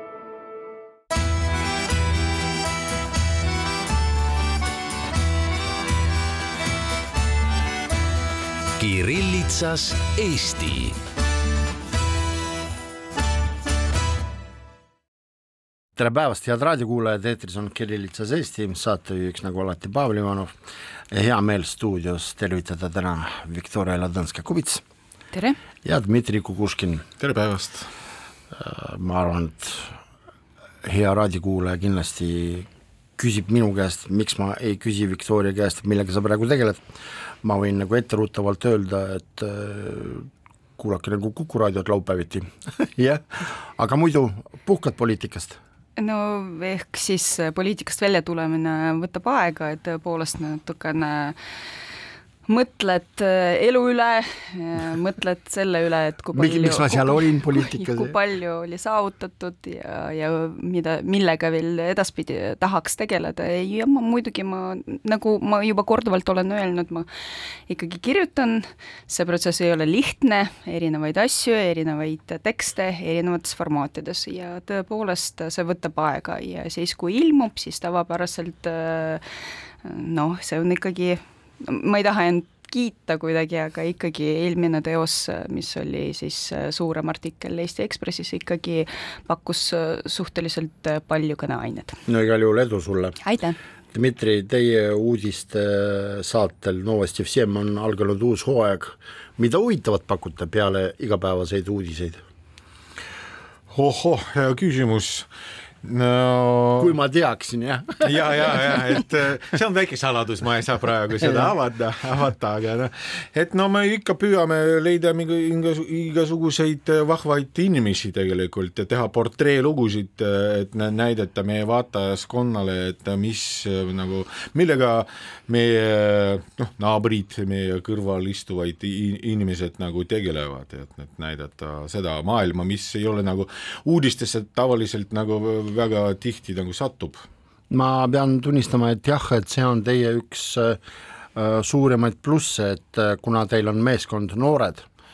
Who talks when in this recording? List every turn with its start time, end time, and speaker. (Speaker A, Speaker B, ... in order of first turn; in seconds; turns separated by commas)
Speaker A: 8.8-11.0, Speaker B: 16.0-20.5, Speaker B: 21.1-24.8, Speaker B: 25.8-27.1, Speaker C: 27.2-27.9, Speaker B: 28.5-29.9, Speaker B: 30.8-32.7, Speaker B: 33.2-36.8, Speaker B: 37.4-45.6, Speaker D: 46.0-51.4, Speaker D: 52.5-67.1, Speaker B: 56.3-58.2, Speaker D: 67.7-79.2, Speaker D: 79.8-92.0, Speaker B: 92.1-93.2, Speaker D: 93.2-93.6, Speaker B: 93.9-102.2, Speaker C: 103.7-105.3, Speaker C: 105.8-106.9, Speaker B: 106.8-108.8, Speaker C: 108.0-137.2, Speaker B: 137.7-140.8, Speaker B: 141.3-144.9